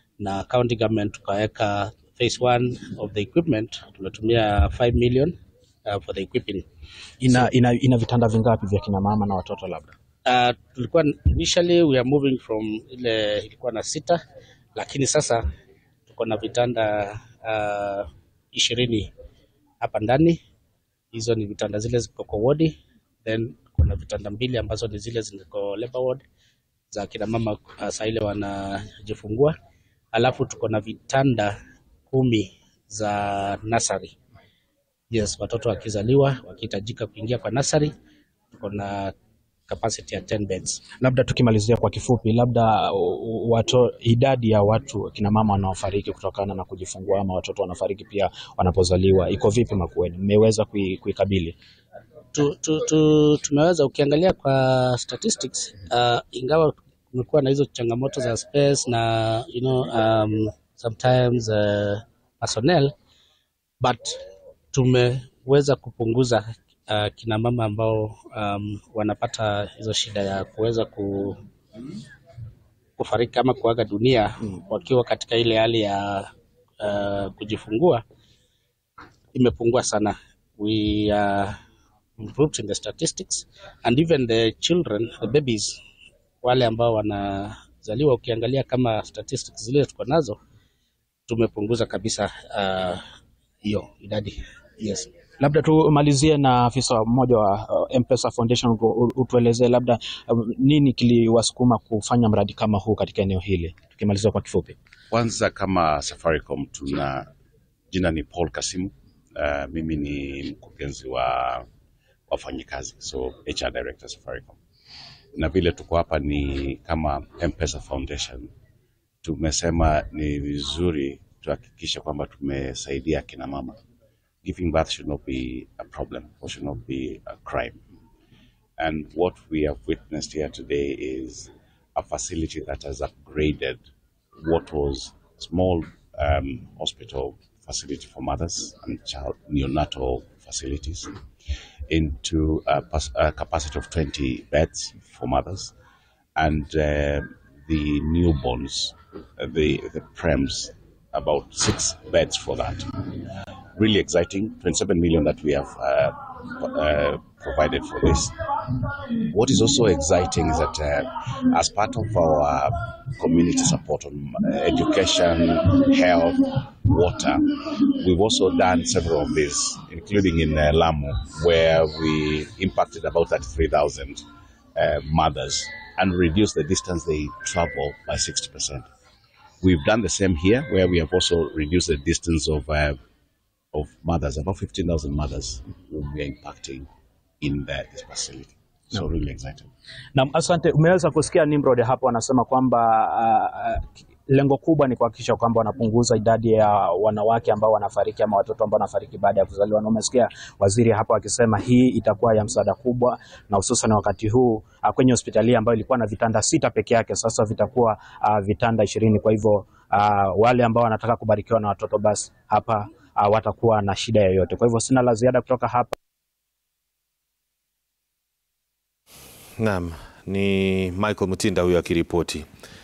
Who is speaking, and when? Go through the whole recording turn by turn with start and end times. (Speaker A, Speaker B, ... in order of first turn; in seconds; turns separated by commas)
Speaker A: 0.2-5.3, Speaker A: 5.9-6.7, Speaker B: 7.2-9.9, Speaker A: 10.3-14.2, Speaker A: 14.8-15.4, Speaker A: 16.1-19.1, Speaker A: 19.8-20.4, Speaker A: 21.1-26.2, Speaker A: 26.9-29.6, Speaker A: 30.1-31.6, Speaker A: 32.1-34.1, Speaker A: 35.1-37.9, Speaker A: 38.5-39.1, Speaker A: 39.7-40.8, Speaker B: 41.0-51.5, Speaker A: 52.3-62.9, Speaker A: 63.8-64.2, Speaker A: 64.7-71.4, Speaker A: 73.0-76.3, Speaker A: 76.8-78.0, Speaker A: 79.3-81.6, Speaker A: 82.2-85.8, Speaker A: 86.4-90.4, Speaker A: 91.3-93.0, Speaker A: 93.6-95.1, Speaker B: 95.4-104.8, Speaker C: 105.1-107.3, Speaker C: 107.9-111.7, Speaker C: 112.3-114.6, Speaker C: 115.4-118.5, Speaker C: 119.2-123.8, Speaker C: 124.4-127.8, Speaker C: 128.8-133.8, Speaker C: 134.4-141.1, Speaker C: 141.9-145.7, Speaker C: 146.4-152.9, Speaker C: 153.8-158.4, Speaker C: 159.2-174.2, Speaker C: 174.8-178.9, Speaker C: 179.6-183.0, Speaker C: 183.7-186.9, Speaker C: 187.4-189.7, Speaker B: 190.2-215.9, Speaker D: 219.6-222.5